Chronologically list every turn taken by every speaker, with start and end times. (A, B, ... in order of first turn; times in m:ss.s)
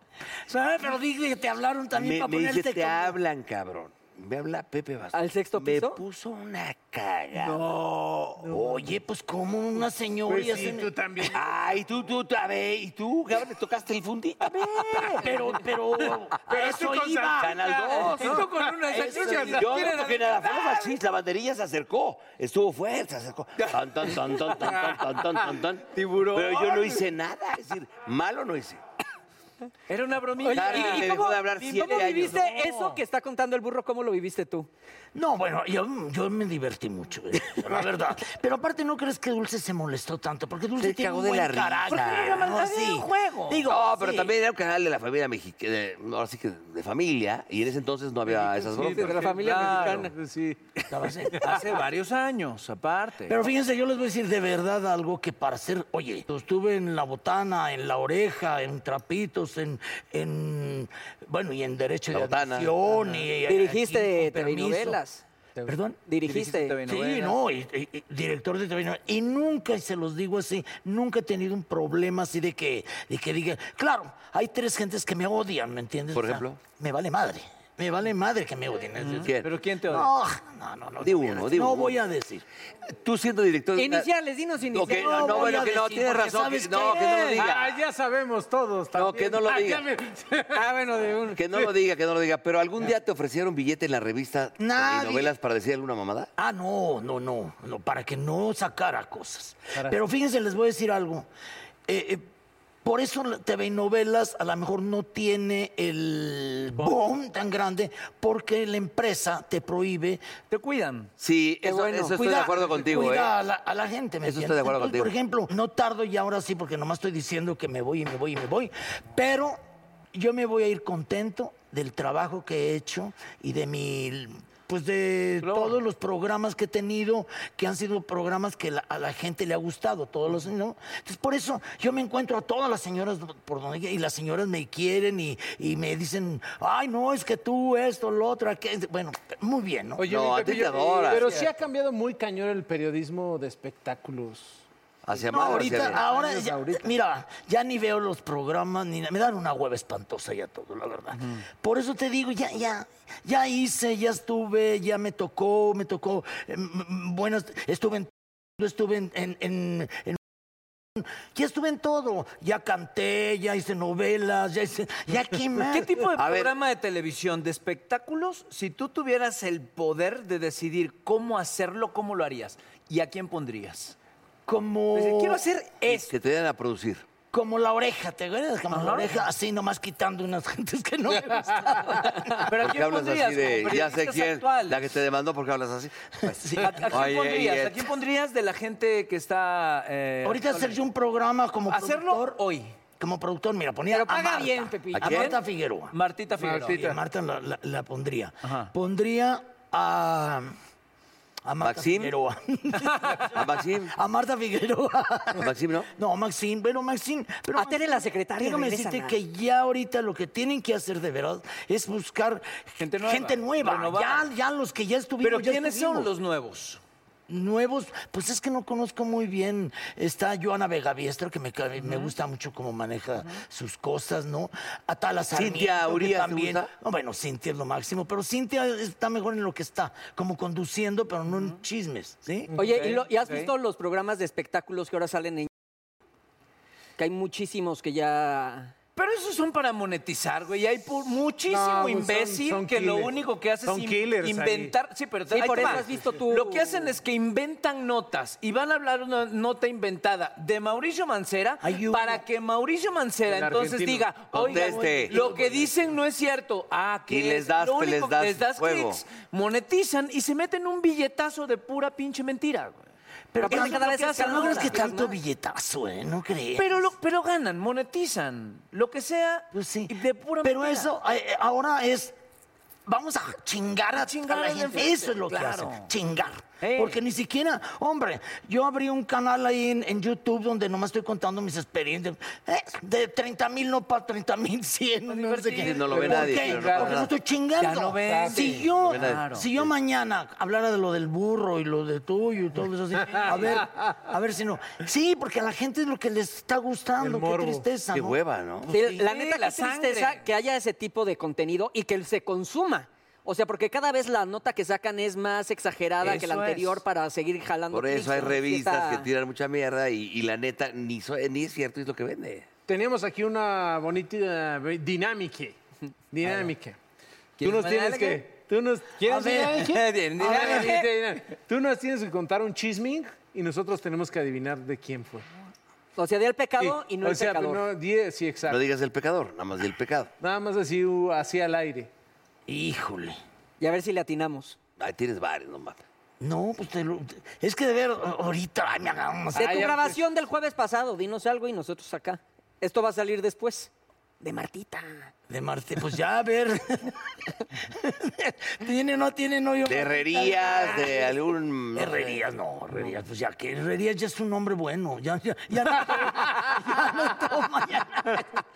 0:00.5-0:03.2 A
0:01.9-0:07.7 B
0:05.1-0:06.0 C
0:07.4-0:08.4 D
0:08.4-0:08.8 E
0:08.5-0:10.9 A
0:10.2-0:11.4 E
0:11.2-0:15.3 B
0:14.7-0:15.2 D
0:15.2-0:17.6 A
0:16.4-0:19.7 E
0:17.4-0:18.5 B
0:17.8-0:20.9 D
0:18.9-0:19.5 A
0:19.2-0:28.8 B
0:23.6-0:25.0 D
0:25.9-0:27.0 D
0:29.9-0:31.2 D
0:30.4-0:34.7 C
0:30.5-0:32.4 B
0:31.8-0:32.1 D
0:32.5-0:32.8 A
0:35.1-0:44.3 A
0:40.8-0:42.4 B
0:41.9-0:43.7 D
0:43.6-0:49.2 B
0:48.3-0:50.6 E
0:48.8-0:50.1 C
0:49.1-0:50.1 D
0:50.9-0:51.7 A
0:51.3-0:53.5 D
0:53.3-1:05.0 A
1:02.1-1:02.8 B
1:02.9-1:03.3 E
1:03.4-1:05.2 C
1:05.6-1:06.0 A
1:06.0-1:06.8 C
1:06.2-1:07.4 D
1:06.8-1:19.3 A
1:16.1-1:16.6 B
1:19.0-1:20.1 D
1:19.2-1:19.5 B
1:19.8-1:22.4 A
1:21.0-1:22.0 B
1:22.9-1:24.1 B
1:23.8-1:25.7 C
1:24.7-1:27.8 B
1:24.9-1:27.4 A
1:27.3-1:30.8 E
1:28.9-1:29.9 B
1:30.5-1:31.4 C
1:31.3-1:36.3 B
1:34.6-1:35.3 A
1:36.4-1:41.3 A
1:39.7-1:40.0 E
1:41.9-1:42.3 A
1:42.8-1:50.2 A
1:50.5-1:51.1 D
1:51.2-1:53.3 B
1:51.6-1:52.1 C
1:52.0-1:59.6 A
1:54.2-1:55.1 B
2:00.1-2:20.1 A
2:05.4-2:05.8 D
2:20.0-2:21.3 B
2:20.0-2:24.6 E
2:25.0-2:26.0 B
2:25.3-2:26.9 E
2:25.3-2:40.2 A
2:31.1-2:31.4 D
2:41.0-2:46.0 A
2:45.6-2:54.0 D
2:46.2-2:46.5 B
2:54.4-2:55.4 A
2:54.9-2:56.1 D
2:55.8-2:57.0 B
2:57.3-3:02.5 A
2:58.7-2:59.2 D
3:01.9-3:04.9 D
3:02.5-3:07.9 B
3:06.2-3:07.1 A
3:06.6-3:10.8 D
3:10.2-3:12.4 A
3:11.7-3:12.8 D
3:13.0-3:15.9 A
3:13.9-3:15.2 C
3:14.9-3:15.3 B
3:15.0-3:16.8 D
3:16.4-3:17.0 E
3:16.6-3:20.5 A
3:18.4-3:18.7 D
3:21.4-3:23.3 A
3:21.6-3:22.1 B
3:22.8-3:23.2 D
3:23.3-3:23.9 B
3:23.9-3:36.1 A
3:25.3-3:25.9 B
3:27.5-3:29.2 C
3:32.8-3:34.3 D
3:35.2-3:36.8 D
3:37.3-3:52.5 A
3:41.8-3:42.2 D
3:45.3-3:46.7 B
3:51.3-3:51.6 D
3:52.5-3:53.0 E
3:52.6-3:55.5 C
3:52.6-3:53.5 D
3:57.0-3:58.7 C
3:59.0-4:22.8 D
4:01.5-4:04.7 E
4:05.3-4:06.9 C
4:11.6-4:12.2 A
4:13.3-4:14.2 E
4:14.3-4:15.2 B
4:14.4-4:15.4 A
4:15.1-4:15.7 E
4:17.1-4:19.0 B
4:23.3-4:26.9 A
4:23.4-4:24.8 D
4:23.4-4:25.2 C
4:26.5-4:30.9 D
4:29.5-4:32.2 A
4:32.8-4:59.0 A
4:33.9-4:35.9 D
4:36.6-4:37.0 D
4:45.1-4:47.0 D
4:45.5-4:47.1 B
4:45.9-4:47.0 E
4:47.6-4:49.5 D
4:48.0-4:48.7 E
4:48.8-4:49.7 B
4:53.1-4:53.8 E
4:53.1-4:53.6 D
4:57.0-4:57.7 E
4:57.9-4:58.7 B
4:58.7-5:09.1 C
4:58.9-5:00.2 D
5:06.0-5:06.8 D
5:07.7-5:12.5 B
5:12.7-5:15.6 E
5:16.1-5:16.8 E
5:16.2-5:16.5 D
5:17.4-5:18.3 D
5:17.4-5:25.3 E
5:19.0-5:20.9 D
5:19.1-5:19.6 A
5:20.2-5:20.8 A
5:26.0-5:27.6 C
5:26.6-5:28.6 E
5:28.5-5:30.1 B
5:30.2-5:31.9 E
5:32.5-5:33.2 A
5:33.6-5:34.6 C
5:34.8-5:35.8 B
5:36.2-5:39.8 A
5:39.3-5:45.1 C
5:39.4-5:40.0 E
5:45.3-5:47.0 A
5:47.5-5:51.2 A
5:49.6-5:52.2 B
5:51.7-5:58.4 A